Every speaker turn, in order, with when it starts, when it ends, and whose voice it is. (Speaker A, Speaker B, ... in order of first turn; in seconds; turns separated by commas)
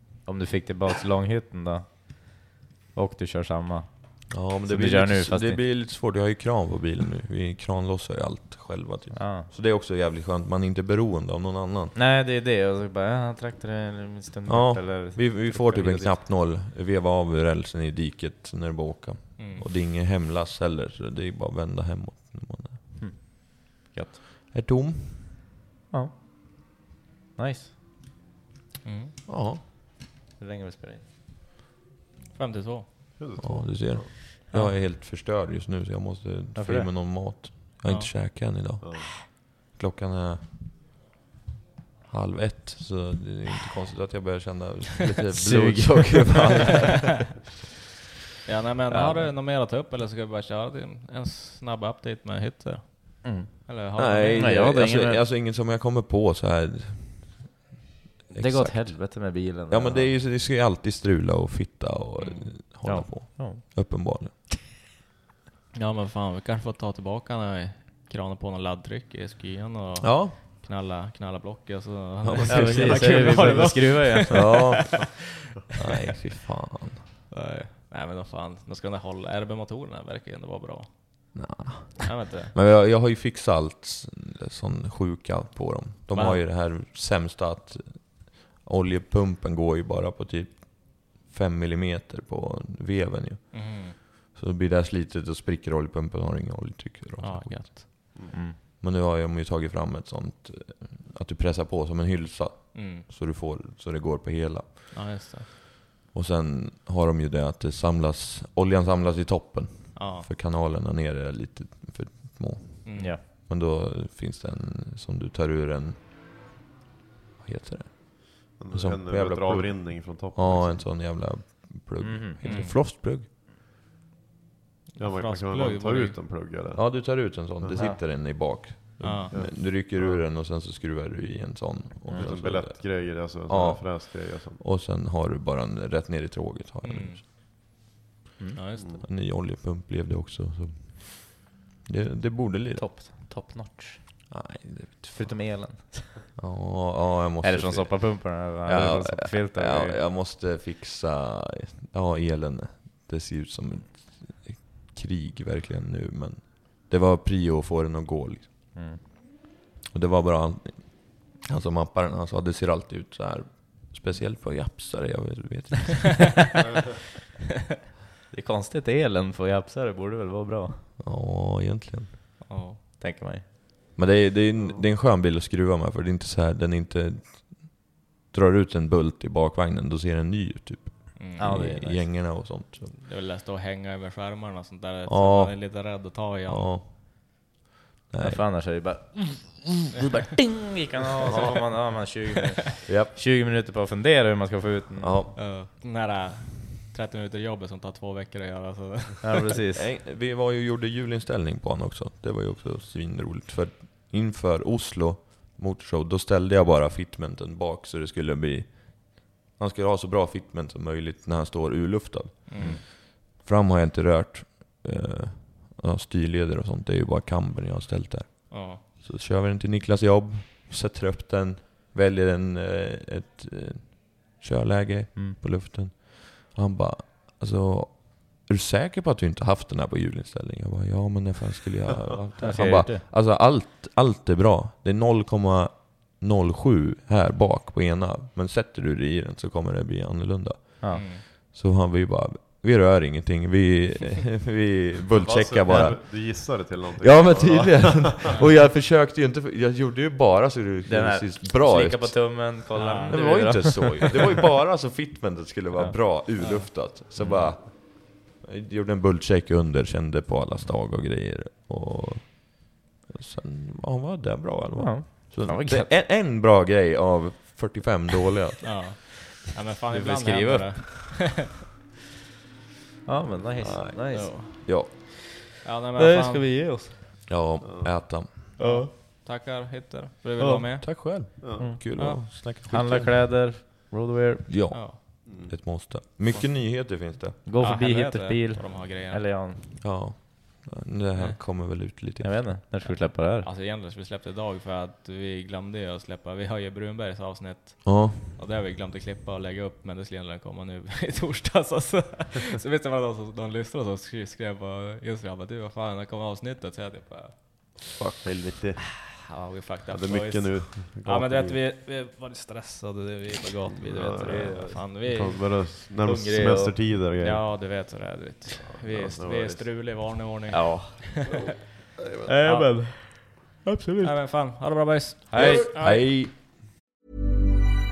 Speaker A: 0.2-5.6, Speaker B: 4.3-11.9, Speaker A: 9.1-9.5, Speaker A: 11.9-16.2, Speaker B: 14.5-22.9, Speaker C: 19.4-19.6, Speaker A: 23.0-24.2, Speaker B: 24.5-25.4, Speaker A: 25.9-26.2, Speaker A: 27.4-27.7, Speaker C: 28.8-29.1, Speaker B: 29.3-29.6, Speaker A: 30.4-31.0, Speaker C: 32.4-33.2, Speaker D: 33.2-34.1, Speaker B: 33.4-40.7, Speaker A: 36.5-36.9, Speaker C: 37.9-38.1, Speaker D: 38.8-39.1, Speaker B: 42.1-47.4, Speaker A: 45.4-46.7, Speaker C: 48.5-54.5, Speaker A: 48.9-49.3, Speaker A: 53.2-53.7, Speaker B: 54.0-57.6, Speaker A: 54.4-55.2, Speaker B: 58.3-64.3, Speaker A: 58.3-60.1, Speaker C: 62.2-62.5, Speaker A: 62.8-64.0, Speaker C: 65.8-75.1, Speaker B: 70.0-70.4, Speaker B: 72.2-75.2, Speaker A: 72.5-74.5, Speaker B: 75.8-77.1, Speaker C: 77.3-81.3, Speaker B: 81.3-98.1, Speaker C: 82.0-82.5, Speaker C: 86.1-86.4, Speaker C: 93.5-94.0, Speaker C: 97.2-98.2, Speaker B: 98.8-105.3, Speaker C: 102.7-103.0, Speaker C: 104.9-105.5, Speaker B: 106.1-116.1, Speaker C: 110.0-110.3, Speaker C: 112.8-113.2, Speaker B: 117.4-123.3, Speaker D: 118.6-120.9, Speaker A: 122.0-122.5, Speaker C: 122.4-122.8, Speaker C: 125.0-126.2, Speaker D: 125.0-127.8, Speaker B: 126.7-137.2, Speaker C: 129.0-129.3, Speaker D: 129.3-130.2, Speaker D: 132.1-134.6, Speaker C: 136.8-137.2, Speaker C: 138.6-139.0, Speaker B: 139.0-142.9, Speaker A: 142.7-144.3, Speaker B: 144.3-145.4, Speaker A: 145.1-146.4, Speaker B: 146.4-159.1, Speaker A: 147.4-150.0, Speaker A: 158.8-159.0, Speaker B: 159.9-166.4, Speaker A: 168.3-170.9, Speaker B: 171.0-172.2, Speaker C: 172.5-172.8, Speaker A: 173.0-173.4, Speaker B: 174.0-182.9, Speaker D: 174.6-174.8, Speaker C: 181.2-181.7, Speaker A: 181.4-182.1, Speaker C: 183.0-186.9, Speaker B: 185.1-187.5, Speaker B: 188.1-188.7, Speaker A: 188.2-195.2, Speaker C: 191.3-191.7, Speaker B: 192.9-193.2, Speaker B: 195.0-195.3, Speaker C: 195.4-199.4, Speaker A: 199.2-199.9, Speaker B: 199.8-269.0, Speaker C: 212.5-212.8, Speaker C: 218.5-218.8, Speaker A: 232.4-233.1, Speaker A: 240.8-241.1, Speaker C: 240.9-241.2, Speaker D: 245.1-248.3, Speaker A: 250.9-254.3, Speaker C: 252.7-253.7, Speaker C: 256.4-256.7, Speaker A: 257.2-257.5, Speaker A: 264.8-265.9, Speaker C: 268.6-271.2, Speaker A: 269.9-271.2, Speaker A: 273.1-274.9, Speaker B: 273.6-274.9, Speaker C: 274.1-276.5, Speaker A: 276.0-277.0, Speaker B: 277.3-278.5, Speaker D: 277.6-278.1, Speaker A: 278.6-278.9, Speaker C: 278.6-280.9, Speaker A: 280.4-284.5, Speaker B: 280.8-283.4, Speaker D: 281.4-281.7, Speaker C: 281.4-282.2, Speaker B: 284.5-287.4, Speaker C: 284.7-285.0, Speaker D: 285.2-286.0, Speaker A: 287.5-289.6, Speaker C: 287.6-289.2, Speaker B: 289.8-292.6, Speaker A: 292.2-293.5, Speaker C: 292.9-307.8, Speaker B: 297.8-298.2, Speaker B: 308.0-308.5, Speaker D: 308.2-308.8, Speaker C: 309.1-315.7, Speaker D: 309.9-311.6, Speaker D: 313.7-317.8, Speaker A: 313.9-314.8, Speaker A: 316.0-316.8, Speaker C: 317.2-321.4, Speaker D: 318.5-319.8, Speaker A: 320.5-321.3, Speaker A: 322.3-324.2, Speaker C: 322.4-323.3, Speaker C: 324.0-326.1, Speaker A: 325.3-325.7, Speaker B: 325.4-326.4